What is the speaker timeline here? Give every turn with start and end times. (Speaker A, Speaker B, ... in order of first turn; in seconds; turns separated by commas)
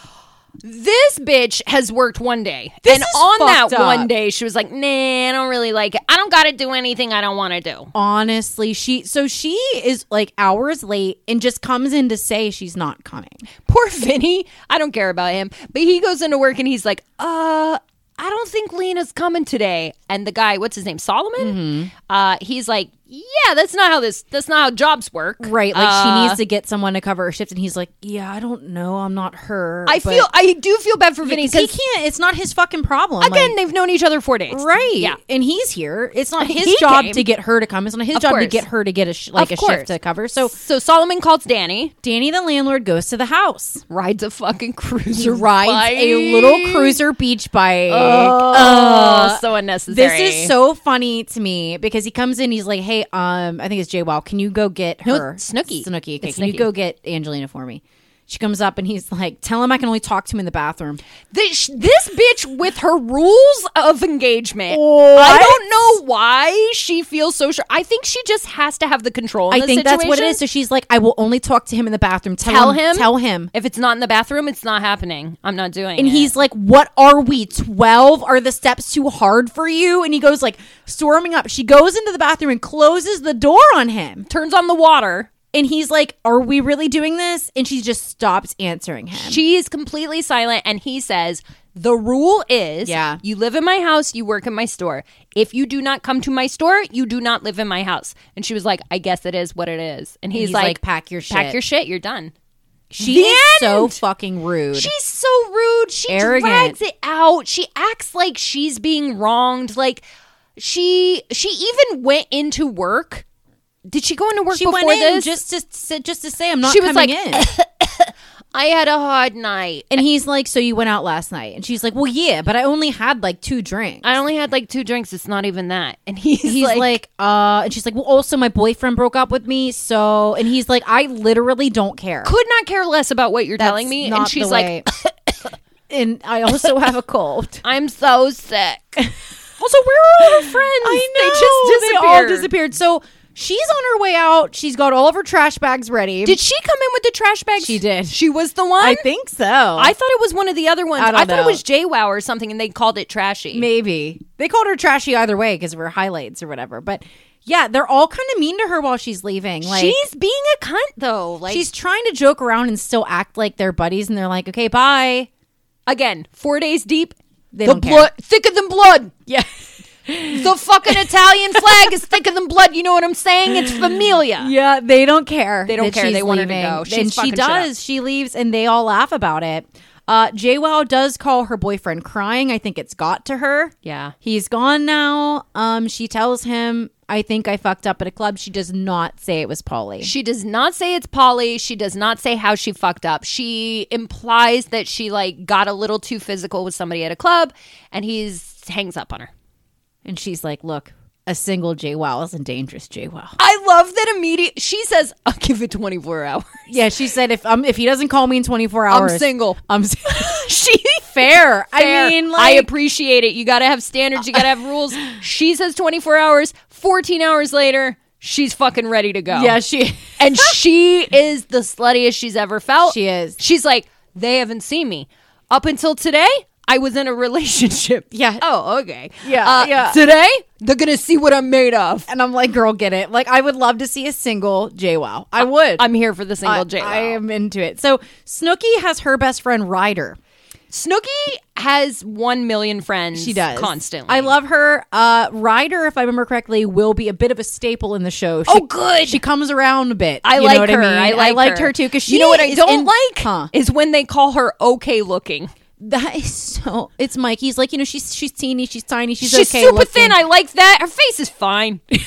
Speaker A: 0.6-7.9, Speaker B: 2.9-4.1, Speaker B: 7.9-13.4, Speaker A: 13.7-26.4, Speaker B: 21.4-21.9, Speaker B: 25.4-30.3, Speaker A: 29.9-31.7, Speaker B: 31.2-33.5, Speaker A: 33.2-35.2, Speaker B: 34.5-40.5, Speaker A: 36.4-37.3, Speaker A: 38.1-38.6, Speaker A: 39.4-39.9, Speaker A: 40.5-41.9, Speaker B: 42.0-43.8, Speaker A: 43.9-47.0, Speaker B: 45.1-61.0, Speaker A: 47.9-50.5, Speaker A: 55.1-56.7, Speaker A: 61.3-70.4, Speaker B: 64.7-65.6, Speaker B: 69.5-73.5, Speaker A: 72.4-76.3, Speaker B: 76.0-84.3, Speaker A: 84.3-85.3, Speaker B: 85.5-89.4, Speaker A: 89.2-102.3, Speaker B: 92.8-93.2, Speaker B: 100.3-101.6, Speaker B: 102.9-104.9, Speaker A: 103.0-104.0, Speaker A: 104.7-110.0, Speaker B: 106.1-106.8, Speaker A: 110.6-113.2, Speaker A: 113.9-115.4, Speaker B: 114.5-117.5, Speaker A: 116.6-120.0, Speaker B: 119.9-124.1, Speaker A: 124.0-127.0, Speaker B: 126.4-132.3, Speaker A: 132.2-135.3, Speaker B: 133.6-134.9, Speaker B: 135.9-137.6, Speaker A: 137.6-139.0, Speaker A: 139.6-142.5, Speaker B: 140.2-146.4, Speaker A: 146.2-149.1, Speaker B: 147.6-148.2, Speaker B: 148.8-149.9, Speaker A: 149.8-153.7, Speaker B: 151.0-151.6, Speaker B: 153.5-160.0, Speaker A: 159.6-161.7, Speaker B: 161.5-165.3, Speaker A: 165.9-169.1, Speaker B: 167.5-168.1, Speaker B: 170.1-171.9, Speaker A: 170.3-174.5, Speaker B: 173.5-190.1, Speaker A: 175.7-177.7, Speaker A: 183.8-184.1, Speaker A: 190.0-199.3, Speaker B: 200.1-203.4, Speaker A: 203.4-206.7, Speaker B: 206.7-212.7, Speaker A: 208.9-209.6, Speaker A: 210.2-211.1, Speaker A: 211.7-219.6, Speaker B: 219.3-220.6, Speaker A: 220.2-232.1, Speaker B: 222.8-223.4, Speaker B: 228.1-228.4, Speaker B: 229.2-230.0, Speaker B: 232.1-235.9, Speaker A: 235.4-237.2, Speaker B: 236.4-240.2, Speaker A: 240.7-244.3, Speaker B: 243.1-253.5, Speaker A: 248.5-249.2, Speaker A: 250.2-255.5, Speaker B: 255.8-260.2, Speaker A: 259.2-261.8